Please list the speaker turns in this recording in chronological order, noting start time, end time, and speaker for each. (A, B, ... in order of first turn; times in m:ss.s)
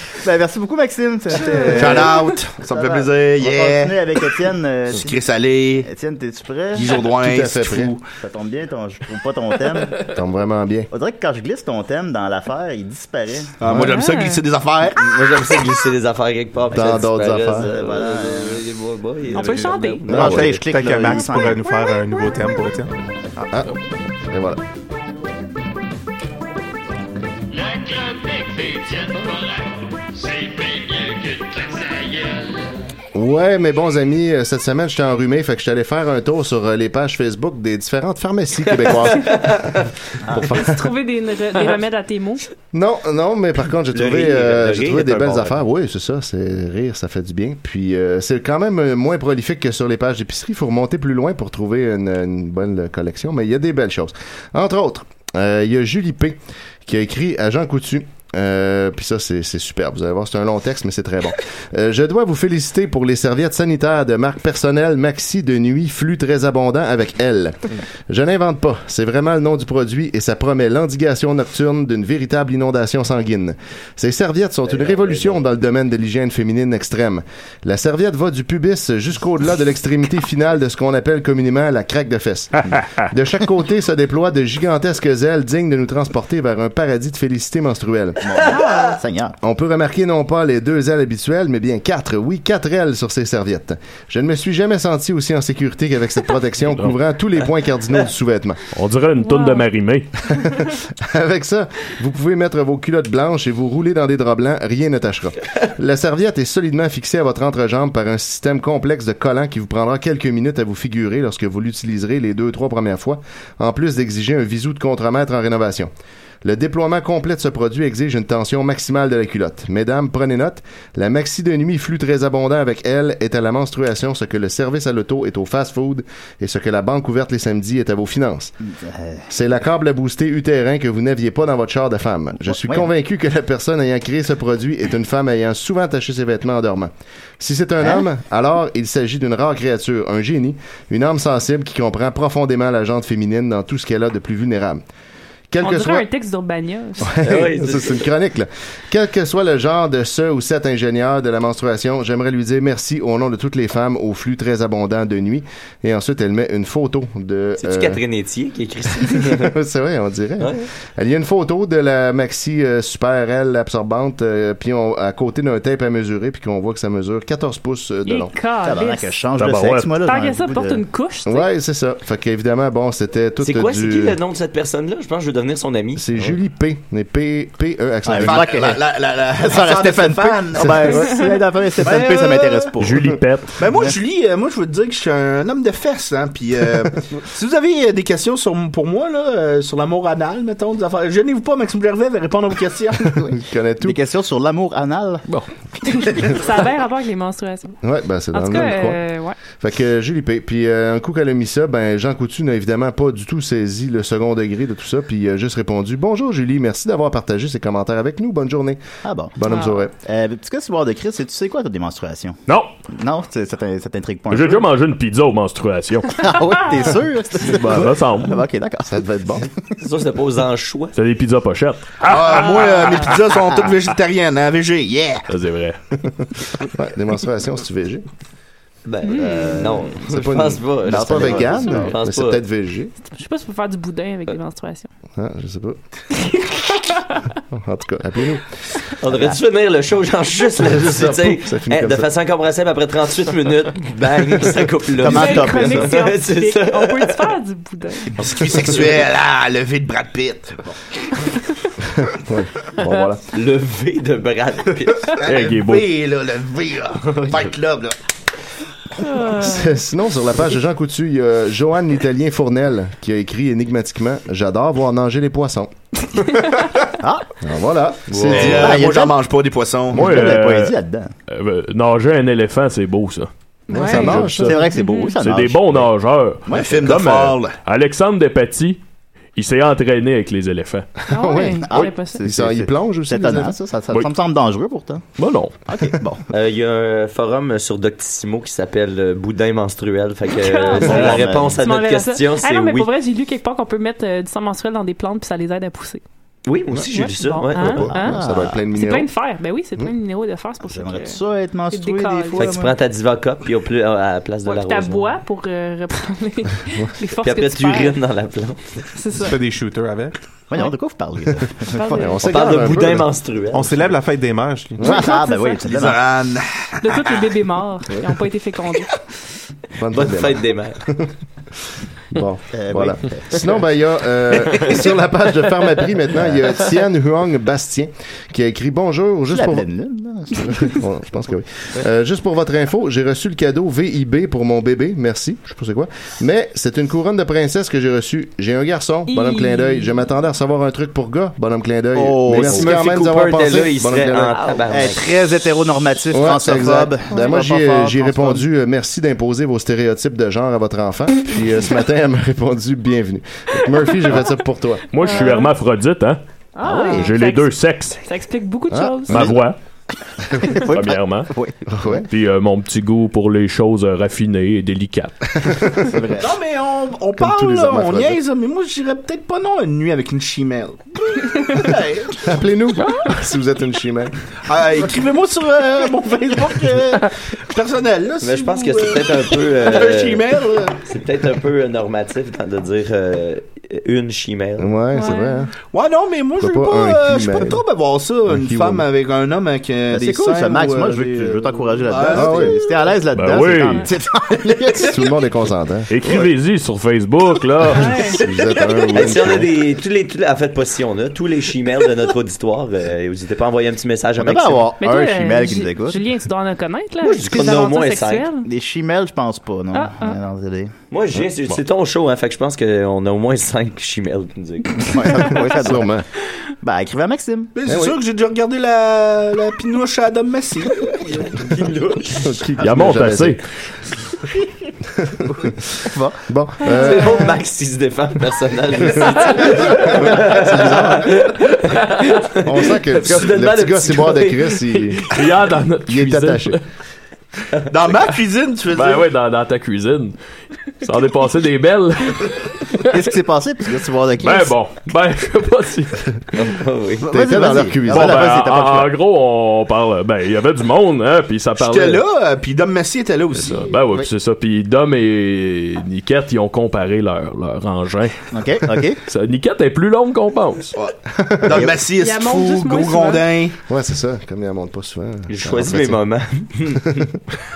0:00.2-0:05.2 A
0:01.6-0:04.0 B
0:04.9-0:05.9 B
0:05.8-0:06.9 A
0:06.7-0:08.0 B
0:07.2-0:08.0 C
0:08.2-0:10.0 A
0:10.1-0:10.9 C
0:10.9-0:13.6 A
0:13.6-0:15.4 B
0:13.9-0:14.4 D
0:15.0-0:20.6 E
0:16.7-0:17.7 C
0:17.5-0:18.6 A
0:19.4-0:20.0 D
0:20.1-0:21.7 A
0:20.1-0:20.6 C
0:20.2-0:22.9 F
0:23.4-0:23.7 C
0:24.3-0:24.6 C
0:27.5-0:32.7 G
0:33.1-0:39.8 C
0:38.7-0:39.9 E
0:40.3-0:40.9 C
0:40.4-0:42.4 D
0:42.7-1:28.2 C
0:43.9-0:45.6 E
1:14.7-1:15.4 E
1:28.2-1:29.4 A
1:28.4-1:29.0 E
1:28.5-1:29.0 D
1:29.4-1:38.6 C
1:38.7-1:40.1 H
1:39.2-1:39.7 D
1:41.0-1:55.9 C
1:56.4-2:08.6 C
2:08.7-2:09.3 A
2:09.3-2:24.8 C
2:12.5-2:12.9 A
2:25.5-2:26.1 C
2:25.6-2:27.2 D
2:27.0-2:38.0 C
2:27.2-2:28.1 E
2:37.6-2:39.5 E
2:39.0-2:48.3 C
2:40.4-2:40.7 E
2:48.1-2:49.1 D
2:48.6-2:50.8 A
2:49.4-2:49.9 H
2:50.0-2:51.5 D
2:51.3-2:54.2 C
2:53.4-2:56.1 E
2:56.0-2:58.6 C
2:58.1-2:58.8 A
2:58.2-3:01.2 B
2:59.4-3:03.1 A
3:00.6-3:01.1 C
3:01.8-3:02.8 B
3:02.8-3:03.6 H
3:03.6-3:13.1 B
3:13.1-3:15.2 A
3:13.3-3:14.0 C
3:15.8-3:17.7 D
3:17.8-3:19.0 C
3:18.3-3:19.4 D
3:19.6-3:29.9 C
3:29.0-3:29.4 A
3:29.5-3:29.8 D
3:30.0-3:34.7 A
3:32.5-3:32.7 H
3:34.3-3:36.3 H
3:36.2-3:39.1 A
3:37.5-3:37.8 C
3:37.5-3:38.4 H
3:38.9-3:39.5 C
3:39.8-3:41.0 E
3:40.9-3:43.1 H
3:42.0-3:45.3 B
3:45.3-3:45.8 H
3:46.7-3:48.1 C
3:48.9-3:52.4 E
3:49.0-3:49.6 D
3:49.1-3:50.0 A
3:50.0-3:52.9 C
3:50.8-3:52.0 A
3:53.0-3:54.9 D
3:55.2-3:55.8 C
3:57.5-3:58.5 C
3:59.0-4:07.3 E
3:59.1-3:59.4 A
4:00.6-4:02.1 C
4:05.0-4:06.0 A
4:05.0-4:08.2 D
4:08.2-4:10.7 B
4:08.2-4:08.7 E
4:12.0-4:13.2 C
4:13.3-4:15.1 E
4:15.2-4:18.0 B
4:15.2-4:15.9 H
4:19.0-4:19.8 D
4:19.4-4:25.7 C
4:27.0-4:27.3 A
4:27.4-4:28.8 C
4:28.1-4:28.6 E
4:28.2-4:30.0 B
4:28.3-4:29.2 A
4:29.9-4:30.8 H
4:29.9-4:31.1 A
4:31.3-4:33.3 H
4:33.7-4:35.1 D
4:33.7-4:34.6 C
4:33.9-4:38.8 H
4:34.1-4:35.9 A
4:36.5-4:36.7 A
4:36.5-4:37.6 B
4:39.4-4:41.0 H
4:41.1-4:42.2 D
4:41.1-4:43.6 C
4:41.6-4:45.1 A
4:45.2-4:45.5 H
4:45.7-4:46.2 A
4:46.3-4:52.9 E
4:50.3-4:56.0 D
4:50.8-4:51.6 A
4:56.5-4:57.9 E
4:56.9-5:01.2 D
4:57.6-4:59.1 C
4:57.9-4:58.6 A
5:00.6-5:02.8 A
5:01.7-5:02.6 D
5:02.4-5:05.1 E
5:04.5-5:08.0 D
5:07.2-5:08.8 E
5:09.0-5:09.4 D
5:09.2-5:10.2 F
5:10.5-5:12.2 A
5:11.7-5:12.3 D
5:12.0-5:13.1 C
5:12.2-5:13.9 E
5:13.5-5:14.8 F
5:14.8-5:16.0 A
5:14.8-5:15.7 D
5:15.6-5:17.3 B
5:16.8-5:18.9 D
5:19.8-5:21.1 C
5:19.9-5:20.8 E
5:22.1-5:29.7 C
5:22.5-5:23.6 A
5:26.1-5:26.4 A
5:29.3-5:30.8 A
5:30.4-5:44.5 C
5:39.1-5:40.0 D
5:42.0-5:42.8 A
5:42.3-5:45.1 E
5:44.3-5:44.7 D
5:44.7-5:48.4 A
5:46.1-5:54.9 C
5:47.1-5:47.4 D
5:54.9-5:58.0 H
5:55.0-5:55.5 D
5:56.6-5:59.3 D
5:58.7-5:59.4 C
5:59.1-5:59.6 H
6:00.4-6:02.0 A
6:00.7-6:01.3 H
6:01.7-6:02.1 C
6:02.1-6:05.8 H
6:05.8-6:06.3 A
6:06.2-6:12.2 B
6:07.2-6:08.2 C
6:12.2-6:14.2 C
6:14.5-6:20.8 B
6:18.2-6:20.3 E
6:20.8-6:24.7 E
6:24.6-6:25.5 C
6:24.9-6:25.5 D
6:25.7-6:32.7 B
6:26.4-6:27.6 C
6:28.3-6:28.8 C
6:29.9-6:35.0 A
6:32.1-6:32.6 C
6:33.1-6:33.9 H
6:34.8-6:35.9 C
6:35.9-6:38.0 H
6:37.7-6:38.2 D
6:38.2-6:39.6 C
6:38.9-6:44.7 E
6:44.2-6:46.0 A
6:44.8-6:48.5 D
6:47.0-6:48.3 E
6:48.4-6:50.7 A
6:49.7-6:50.2 D
6:50.9-6:54.8 E
6:54.8-6:55.9 A
6:55.5-6:56.1 C
6:56.6-6:57.5 A
6:57.6-7:01.3 B
6:57.7-6:58.0 C
7:01.2-7:02.3 E
7:02.2-7:03.4 C
7:02.6-7:03.4 H
7:05.0-7:05.5 C
7:05.8-7:06.2 A
7:06.3-7:07.3 C
7:06.6-7:07.3 D
7:06.7-7:14.6 E
7:09.4-7:11.2 C
7:12.4-7:15.1 C
7:15.1-7:16.6 H
7:15.9-7:16.6 C
7:17.7-7:19.1 B
7:18.7-7:20.2 H
7:20.8-7:22.9 H
7:22.9-7:24.6 A
7:24.2-7:26.1 H
7:26.3-7:27.1 E
7:27.0-7:29.0 A
7:27.1-7:28.3 C
7:27.9-7:32.0 H
7:31.6-7:33.8 B
7:33.4-7:38.2 H
7:38.3-7:39.0 A
7:39.1-7:40.7 H
7:40.8-7:43.6 B
7:41.2-7:41.7 C
7:42.0-7:43.2 D
7:43.7-7:46.0 C
7:45.3-7:47.1 E
7:46.7-7:47.2 C